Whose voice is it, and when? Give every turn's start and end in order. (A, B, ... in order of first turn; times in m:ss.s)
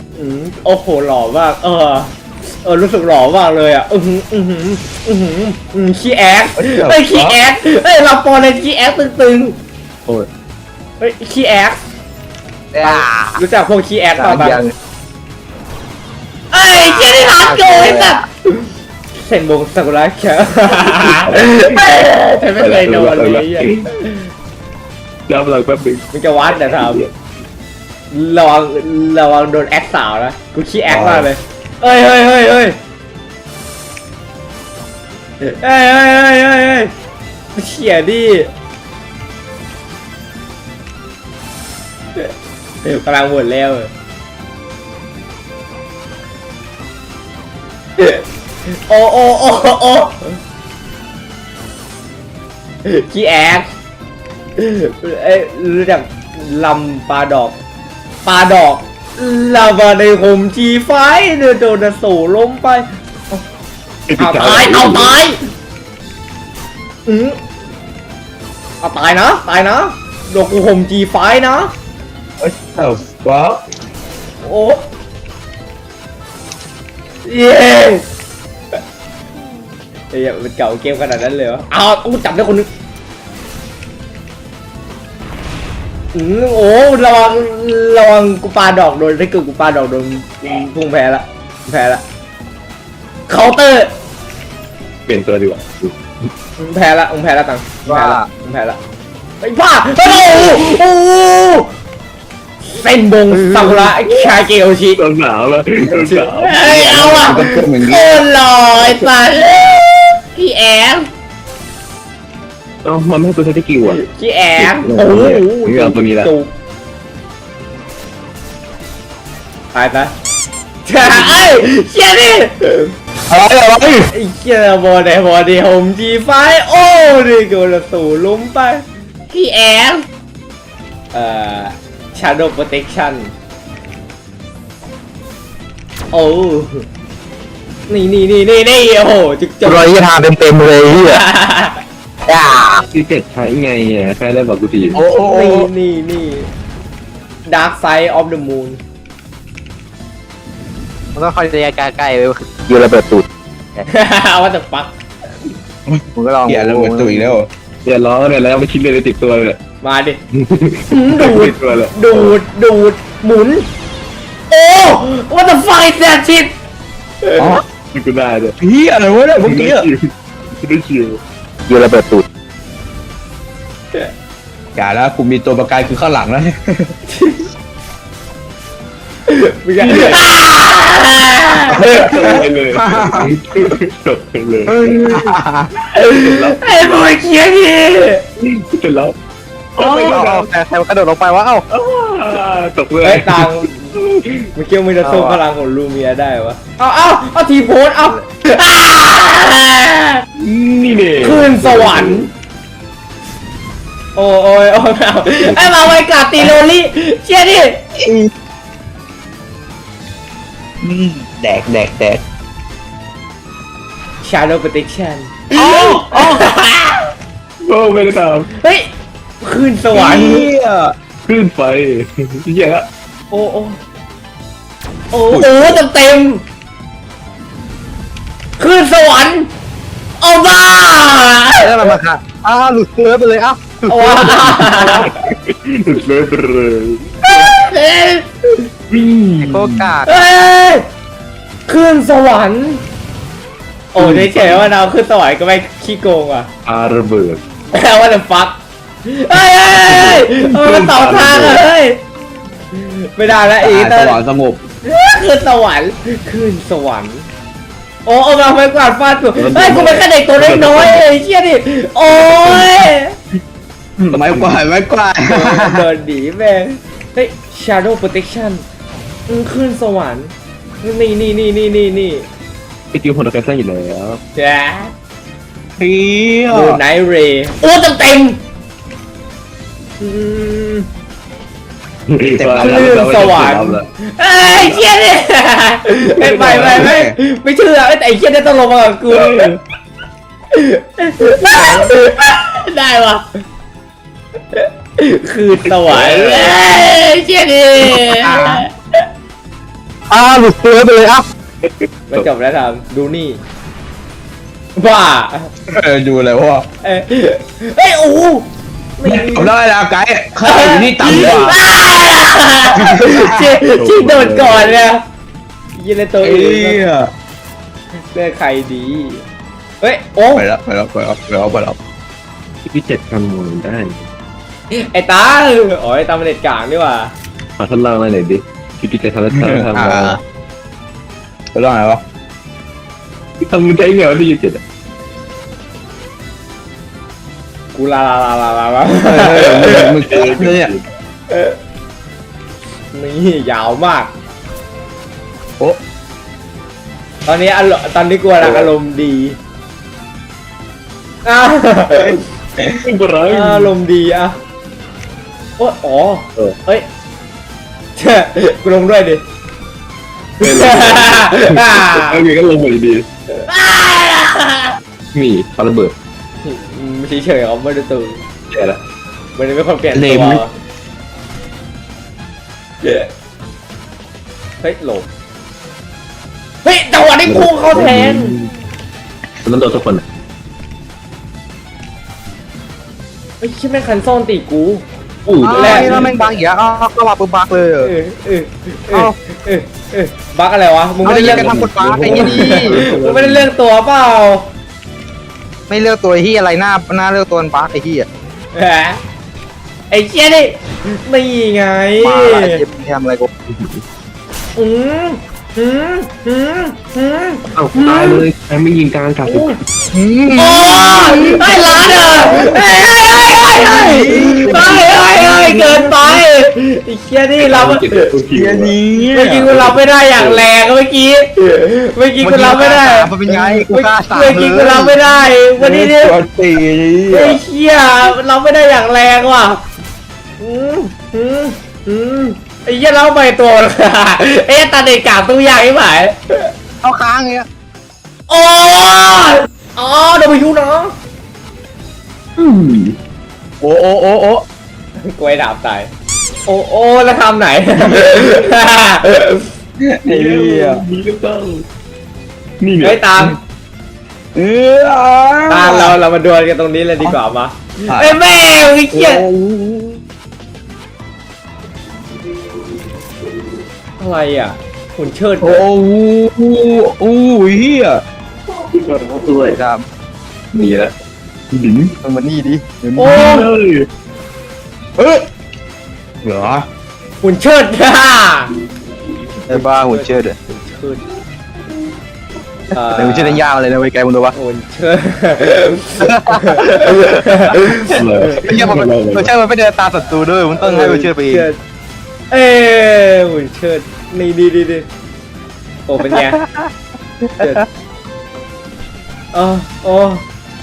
0:00.1-0:09.6 A
0:06.6-0:07.4 B
0:11.0-0:11.8 A
0:12.7-0:13.4 C
0:12.8-0:14.6 A
0:14.1-0:14.7 C
0:16.5-0:24.3 A
0:16.7-0:18.2 C
0:20.9-0:21.8 D
0:22.6-0:23.9 D
0:25.3-0:27.1 D
0:26.1-0:27.0 A
0:28.1-0:32.8 A
0:30.9-0:31.3 D
0:35.4-0:36.9 A
0:37.5-0:38.5 A
0:42.8-0:43.9 A
0:48.0-0:50.4 A
0:52.8-0:53.7 A
0:54.6-0:57.6 A
0:58.2-1:03.4 A
1:04.1-1:05.2 D
1:04.2-1:05.4 A
1:07.0-1:07.4 A
1:08.8-1:11.7 A
1:12.4-1:13.6 B
1:14.4-1:14.8 A
1:17.2-1:18.0 A
1:20.1-1:22.7 A
1:26.1-1:32.0 A
1:33.3-1:33.9 A
1:35.1-1:36.0 D
1:36.6-1:38.8 A
1:37.8-1:38.3 C
1:39.4-1:41.7 A
1:42.6-1:45.0 A
1:43.3-1:43.8 C
1:44.1-1:44.4 D
1:45.0-1:47.5 D
1:45.9-1:51.1 A
1:47.1-1:48.1 B
1:52.8-1:54.0 D
1:53.9-1:56.5 A
1:54.6-1:56.3 D
1:59.7-2:00.1 A
2:00.8-2:02.9 A
2:03.3-2:04.1 B
2:04.1-2:10.0 A
2:11.1-2:13.3 A
2:16.1-2:16.8 A
2:17.9-2:19.9 A
2:19.6-2:21.2 C
2:21.0-2:21.8 A
2:22.3-2:22.8 C
2:22.9-2:25.0 D
2:24.9-2:25.7 B
2:25.2-2:26.5 A
2:27.5-2:28.8 A
2:31.1-2:33.8 C
2:33.9-2:34.9 A
2:35.9-2:37.5 B
2:36.1-2:37.4 C
2:37.8-2:39.6 D
2:39.8-2:40.2 A
2:40.4-2:42.3 D
2:40.9-2:43.6 A
2:44.5-2:46.5 A
2:47.2-2:47.6 A
2:47.4-2:47.6 B
2:47.9-2:48.6 D
2:48.6-2:49.9 B
2:49.4-2:50.0 D
2:50.6-2:51.2 D
2:51.7-2:52.2 C
2:54.8-2:56.9 B
2:57.1-2:57.5 A
2:59.3-3:02.4 A
2:59.8-3:00.2 D
3:01.8-3:03.3 B
3:01.8-3:05.4 D
3:04.7-3:05.7 B
3:05.9-3:07.1 D
3:05.9-3:08.2 A
3:08.4-3:09.1 D
3:09.8-3:10.5 D
3:09.8-3:11.6 C
3:11.7-3:14.5 D
3:13.0-3:13.9 A
3:14.6-3:20.2 A
3:15.0-3:15.4 C
3:20.4-3:22.3 D
3:21.2-3:22.3 A
3:24.1-3:27.8 A
3:28.0-3:28.3 B
3:30.8-3:32.2 B
3:34.2-3:37.1 A
3:35.5-3:36.5 B
3:37.6-3:38.5 D
3:38.6-3:38.9 A
3:39.4-3:40.5 A
3:39.9-3:40.9 B
3:41.2-3:42.8 D
3:43.3-3:43.8 A
3:45.1-3:46.4 A
3:45.3-3:45.8 B
3:48.6-3:49.5 A
3:50.2-3:51.9 A
3:51.6-3:54.9 C
3:53.9-3:55.1 A
3:54.4-3:57.0 D
3:57.2-3:58.7 A
3:58.9-3:59.9 D
3:59.4-4:00.2 C
4:00.0-4:00.8 A
4:01.7-4:02.8 A
4:03.9-4:06.5 A
4:04.0-4:04.7 D
4:06.6-4:07.4 D
4:07.7-4:12.0 A
4:09.7-4:11.6 D
4:12.7-4:14.2 A
4:13.6-4:14.6 B
4:14.8-4:17.3 A
4:18.0-4:23.2 A
4:19.3-4:21.0 D
4:22.2-4:22.8 D
4:24.0-4:25.8 B
4:24.1-4:24.6 D
4:25.2-4:28.6 A
4:29.3-4:32.2 A
4:32.9-4:34.2 D
4:34.3-4:34.9 A
4:35.8-4:36.8 B
4:36.5-4:38.4 A
4:40.0-4:40.9 A
4:42.1-4:43.9 D
4:42.3-4:42.9 B
4:42.6-4:49.5 A
4:46.2-4:46.9 D
4:46.5-4:47.2 B
4:49.1-4:49.6 D
4:50.5-4:53.3 A
4:51.4-4:51.9 D
4:54.5-4:59.0 A
4:55.6-4:56.6 D
4:58.0-4:58.6 C
5:00.1-5:01.2 C
5:01.6-5:02.3 D
5:02.1-5:03.4 A
5:04.8-5:05.5 A
5:05.7-5:06.6 B
5:06.8-5:08.4 A
5:09.0-5:09.5 A
5:09.0-5:11.6 B
5:10.4-5:15.0 A
5:12.7-5:13.5 B
5:13.7-5:14.8 D
5:15.7-5:16.8 A
5:16.2-5:17.1 B
5:18.1-5:19.2 A
5:19.8-5:20.4 A
5:20.3-5:21.8 B
5:22.7-5:24.1 D
5:24.7-5:27.1 A
5:27.6-5:30.2 D
5:29.3-5:30.2 B
5:31.5-5:32.0 B
5:33.4-5:34.6 D
5:37.7-5:40.0 A
5:39.0-5:40.7 B
5:40.1-5:40.8 D
5:41.3-5:41.6 A
5:42.9-5:44.1 A
5:47.2-5:49.4 A
5:48.4-5:48.7 D
5:51.2-5:52.2 A
5:52.0-5:52.8 B
5:52.7-5:53.7 D
5:53.3-5:54.4 A
5:55.6-5:56.8 A
5:58.0-5:59.2 A
6:00.4-6:02.2 A
6:00.4-6:03.0 D
6:03.3-6:04.8 A
6:05.1-6:05.9 D
6:06.4-6:08.2 A
6:08.5-6:08.8 D
6:09.4-6:10.5 A
6:09.9-6:10.4 B
6:12.8-6:13.1 A
6:14.6-6:15.1 A
6:16.6-6:18.4 A
6:17.2-6:18.5 D
6:19.4-6:20.0 D
6:23.4-6:24.8 A
6:25.2-6:26.2 D
6:25.4-6:27.9 C
6:25.5-6:26.0 A
6:27.8-6:31.5 A
6:31.0-6:32.8 C
6:31.0-6:33.5 D
6:32.0-6:34.4 A
6:35.7-6:38.1 C
6:38.5-6:39.0 A
6:39.9-6:42.6 A
6:42.0-6:43.3 C
6:43.5-6:43.8 D
6:44.6-6:48.2 A
6:47.5-6:49.6 D
6:49.2-6:49.6 A
6:49.9-6:51.2 C
6:50.3-6:58.1 A
6:51.0-6:51.5 B
6:53.5-6:56.2 B
6:53.8-6:54.9 C
6:57.4-6:58.8 D
6:58.3-6:59.5 B
6:59.1-7:03.1 A
6:59.4-7:00.4 D
7:02.2-7:05.0 C
7:03.3-7:03.7 B
7:03.7-7:06.2 A
7:05.6-7:07.4 B
7:07.1-7:09.6 A
7:10.4-7:16.5 A
7:16.8-7:17.5 C
7:18.3-7:20.9 A
7:22.4-7:23.0 D
7:23.6-7:24.4 B
7:25.0-7:25.9 A
7:26.4-7:29.5 A
7:29.8-7:30.8 B
7:30.0-7:31.6 D
7:32.6-7:33.1 D
7:32.8-7:33.4 A
7:34.3-7:36.0 B
7:35.5-7:39.2 A
7:37.9-7:38.2 B
7:38.9-7:40.0 B
7:44.0-7:45.6 A
7:45.4-7:48.0 B
7:48.7-7:49.6 D
7:49.4-7:49.8 C
7:50.5-7:50.9 D
7:51.5-7:51.9 D
7:52.0-7:53.4 C
7:53.0-7:53.5 A
7:53.0-7:53.9 D
7:55.0-7:55.2 B
7:56.2-7:56.6 B
7:57.2-7:58.5 A
7:59.5-8:00.3 C
7:59.5-8:01.0 A
8:02.7-8:03.4 A
8:02.9-8:04.3 C
8:04.3-8:08.3 A
8:06.0-8:07.2 C
8:07.8-8:09.3 D
8:08.4-8:11.5 C
8:10.6-8:11.6 A
8:12.3-8:14.9 A
8:15.9-8:16.4 A
8:16.1-8:16.7 C
8:17.2-8:17.6 C
8:17.4-8:17.6 A
8:19.3-8:20.2 A